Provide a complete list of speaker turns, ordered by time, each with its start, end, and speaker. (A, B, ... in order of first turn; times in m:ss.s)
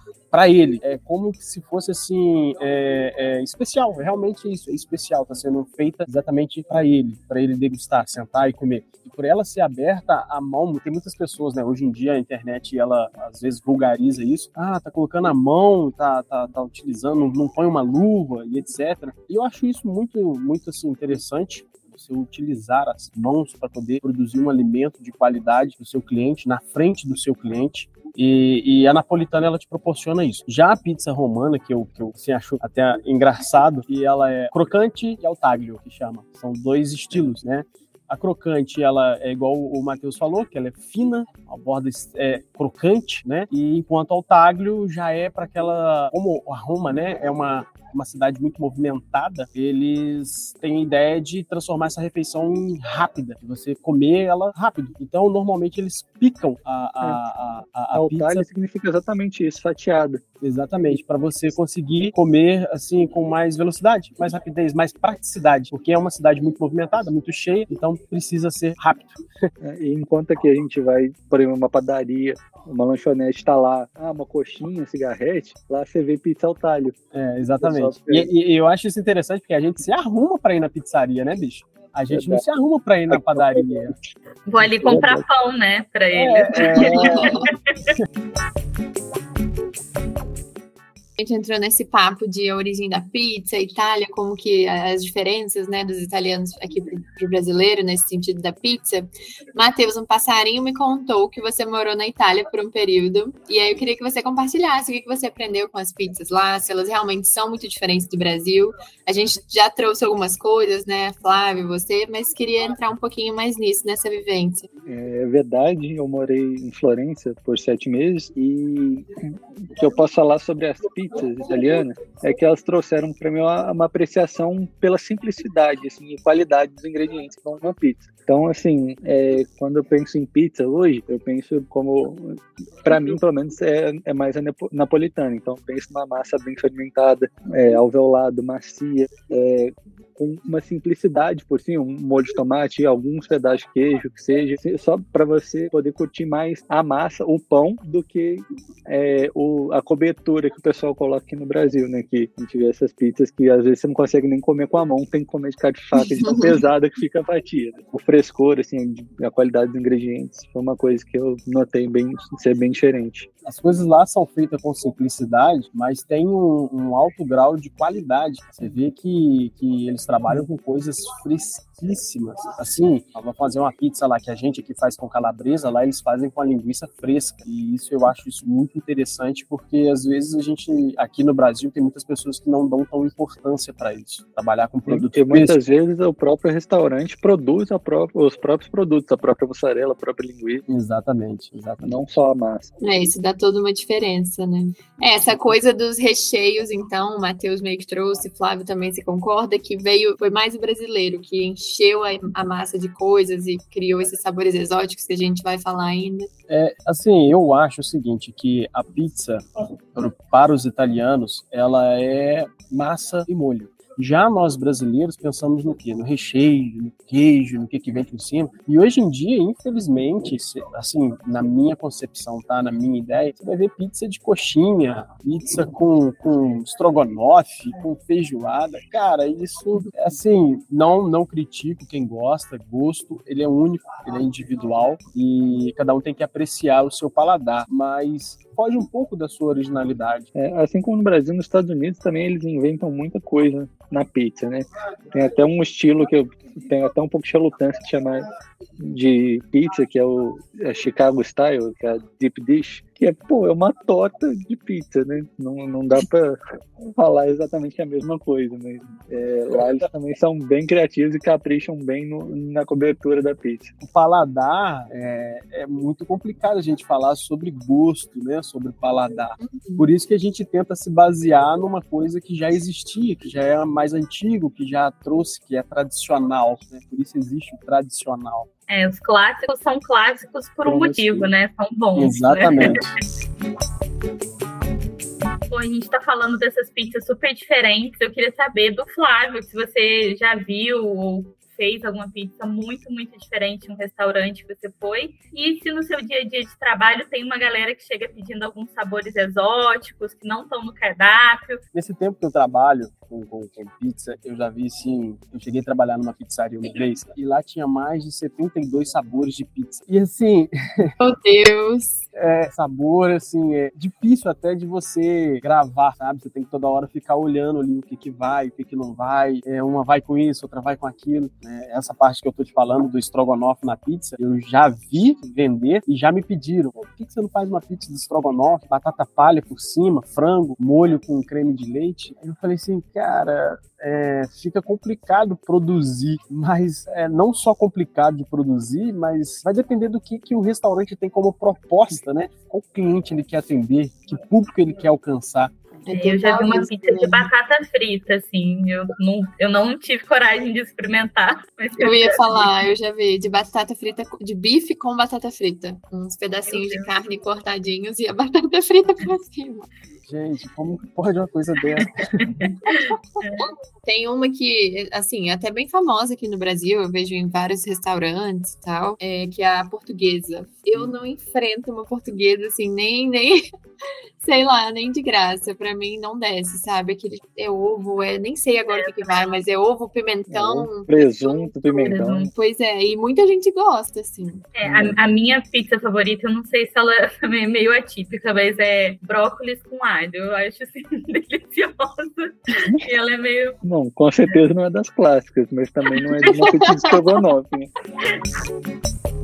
0:00.3-0:58.4 A
0:57.9-1:00.2 B
1:00.4-1:09.2 A
1:09.6-1:17.0 B
1:17.1-1:24.0 A
1:17.6-1:18.3 B
1:22.1-1:22.4 B
1:23.1-1:24.0 B
1:24.5-1:27.5 C
1:24.6-1:25.2 B
1:26.1-1:27.4 A
1:26.8-1:27.5 D
1:26.8-1:27.2 B
1:31.2-1:54.7 D
1:54.9-2:43.3 B
2:36.0-2:36.6 D
2:43.4-3:05.6 A
3:04.9-3:10.6 B
3:10.7-3:12.0 A
3:11.8-3:12.7 B
3:12.8-3:26.3 D
3:26.5-4:00.3 A
4:00.4-4:08.2 B
4:08.8-4:23.7 B
4:23.8-4:38.5 A
4:29.4-4:29.9 D
4:38.7-4:42.8 C
4:40.6-4:41.3 B
4:42.0-4:42.9 A
4:45.5-5:01.6 C
5:01.7-5:10.9 A
5:11.0-5:12.0 D
5:12.1-5:45.5 A
5:45.8-5:47.3 D
5:45.9-5:52.5 C
5:51.8-5:59.7 D
5:56.5-5:56.8 C
6:00.1-6:02.3 A
6:02.2-6:03.5 C
6:03.8-6:13.5 D
6:14.2-6:24.4 D
6:18.7-6:19.3 C
6:20.3-6:22.3 B
6:21.9-6:22.3 C
6:24.6-6:33.6 C
6:24.6-6:25.0 B
6:33.6-6:37.7 B
6:36.3-6:36.9 D